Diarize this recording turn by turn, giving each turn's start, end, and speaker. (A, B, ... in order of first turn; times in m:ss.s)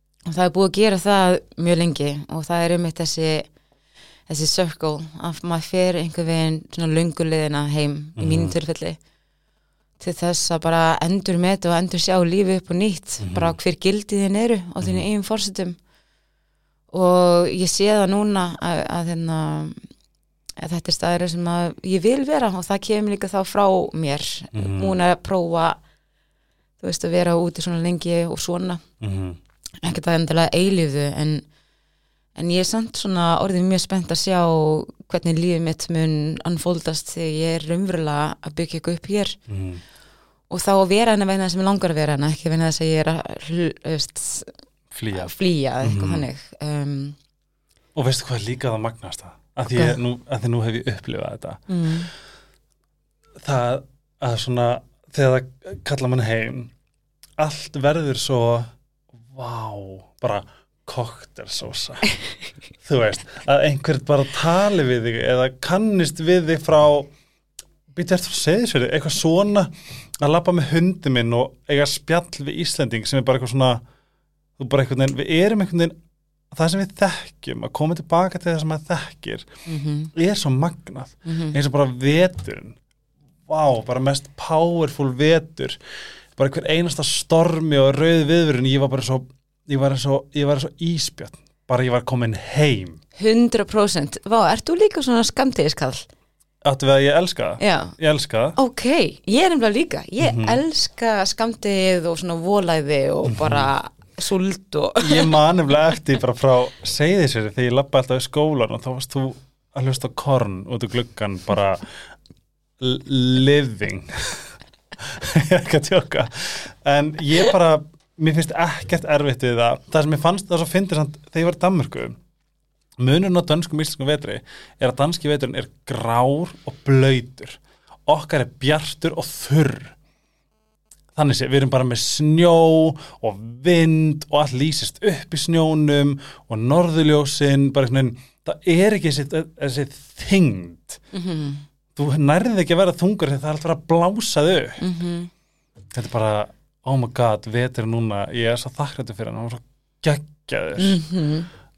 0:00.2-0:03.5 A
0:04.3-0:09.0 A
0:08.2-0:08.5 B
0:10.0-0:15.8 A
0:13.2-0:13.6 B
0:14.8-0:15.1 B
0:16.9-0:19.8 A
0:20.6-0:25.8 A
0:24.5-0:25.0 B
0:26.8-0:28.8 A
0:29.0-0:29.4 B
0:29.8-0:31.4 A
0:32.4-0:39.4 A
0:39.5-0:39.8 B
0:40.5-0:44.5 A
0:44.9-0:46.3 B
0:45.1-0:47.2 A
0:48.0-0:51.7 B
0:49.7-0:50.0 A
0:51.7-0:52.1 A
0:53.4-0:56.7 B
0:57.4-0:58.7 B
0:59.3-1:02.2 B
1:02.8-1:07.1 B
1:07.9-1:13.8 B
1:14.6-1:16.0 B
1:16.5-1:19.5 B
1:19.7-1:20.1 A
1:20.1-1:22.8 B
1:21.2-1:21.6 A
1:23.5-1:25.8 B
1:26.4-1:33.0 B
1:33.2-1:36.1 A
1:36.6-1:38.6 B
1:37.6-1:38.0 A
1:38.6-1:45.4 A
1:40.2-1:40.6 B
1:43.3-1:43.7 B
1:45.0-1:52.0 B
1:52.8-2:02.2 B
2:03.0-2:10.0 B
2:11.2-2:21.0 B
2:21.1-2:21.6 A
2:22.0-2:24.8 B
2:24.8-2:25.3 A
2:25.9-2:31.0 B
2:30.8-2:31.5 A